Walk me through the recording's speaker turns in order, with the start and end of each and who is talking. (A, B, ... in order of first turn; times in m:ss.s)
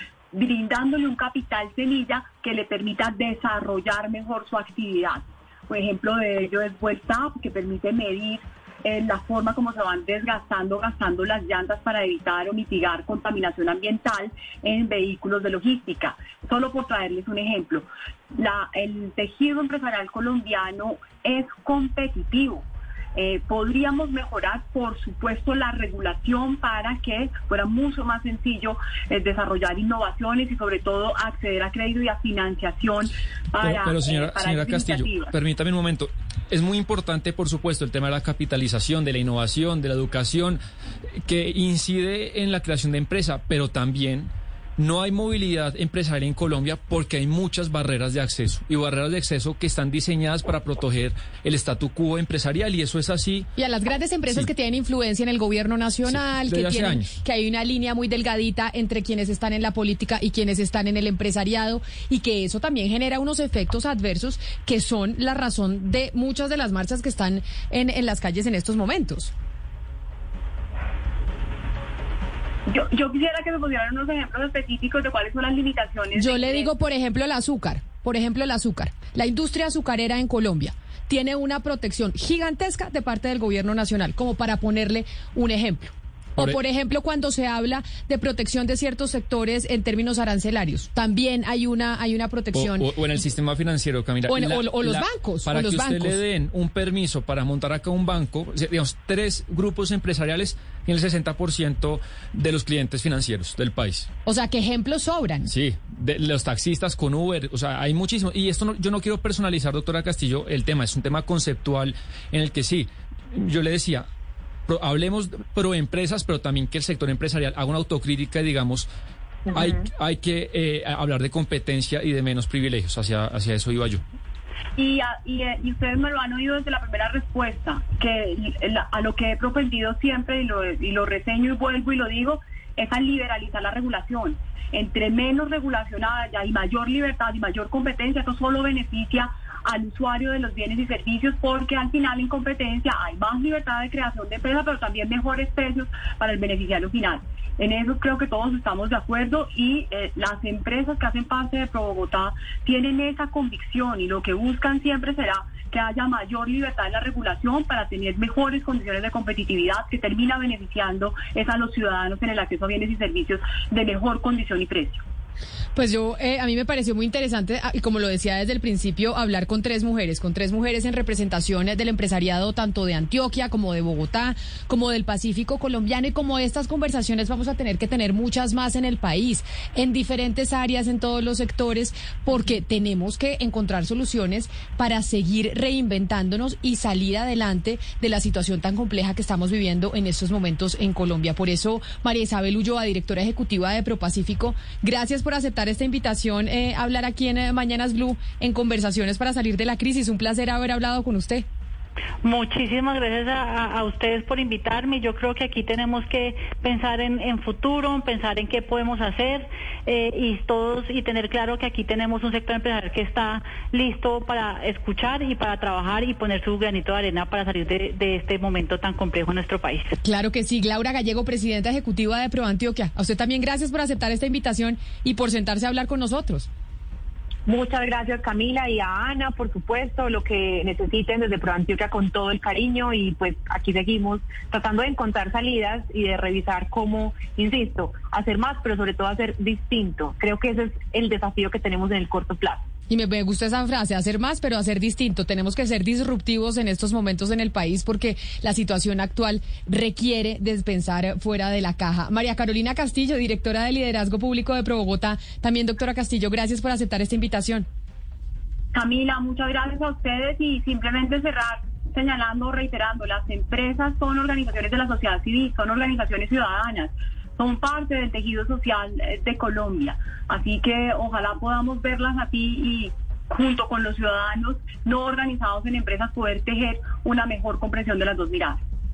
0:00.3-0:35.4 A
0:33.6-0:40.6 B
0:41.2-0:53.5 B
0:53.6-1:09.3 C
0:56.1-0:57.1 B
1:12.7-1:16.7 A
1:16.2-1:32.9 C
1:32.5-1:44.1 B
1:34.3-1:36.2 C
1:44.2-1:45.5 C
1:45.5-1:54.1 B
1:54.7-1:58.9 B
1:59.5-2:04.0 B
2:04.8-2:45.0 A
2:45.8-3:21.4 C
3:22.2-3:40.0 D
3:40.0-3:46.5 C
3:47.5-4:02.7 E
4:02.9-4:17.7 C
4:18.7-4:38.6 A